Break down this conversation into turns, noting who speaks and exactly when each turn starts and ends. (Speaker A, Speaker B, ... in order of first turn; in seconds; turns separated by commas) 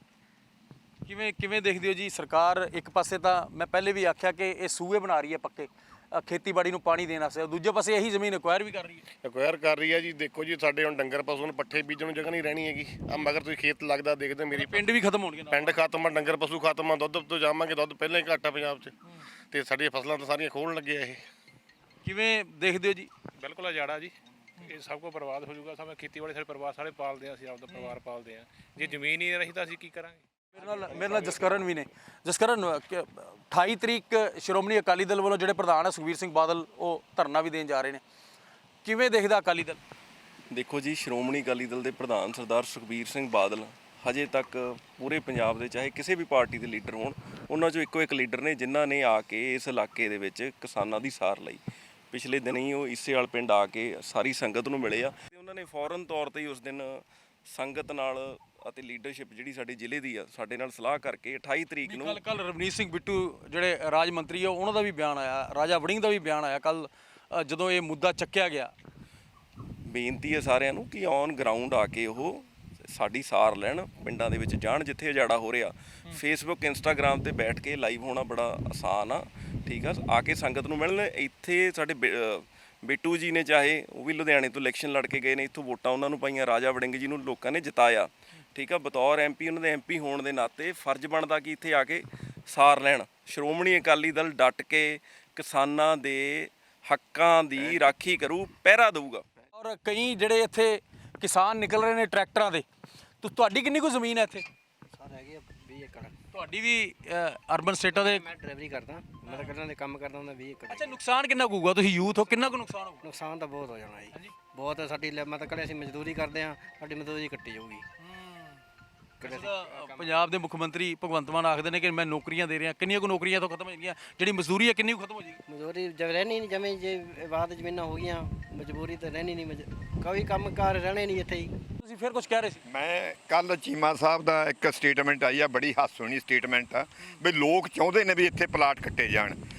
Speaker A: 1.1-9.0, Speaker B: 9.2-18.9, Speaker A: 14.5-15.8, Speaker B: 19.5-21.2, Speaker A: 22.0-23.1, Speaker C: 23.4-31.6, Speaker A: 27.7-28.0, Speaker A: 30.5-38.0, Speaker A: 38.9-39.8, Speaker D: 40.5-62.2, Speaker A: 61.8-68.7, Speaker D: 69.9-99.2, Speaker A: 99.6-102.7, Speaker A: 103.2-104.5, Speaker E: 104.9-106.2, Speaker A: 106.3-108.2, Speaker E: 107.9-111.0, Speaker A: 109.3-109.5, Speaker A: 110.7-113.0, Speaker E: 113.0-117.8, Speaker A: 118.0-118.6, Speaker E: 119.2-120.3, Speaker A: 119.2-125.4, Speaker E: 125.5-131.5, Speaker A: 131.8-132.6, Speaker F: 132.7-139.4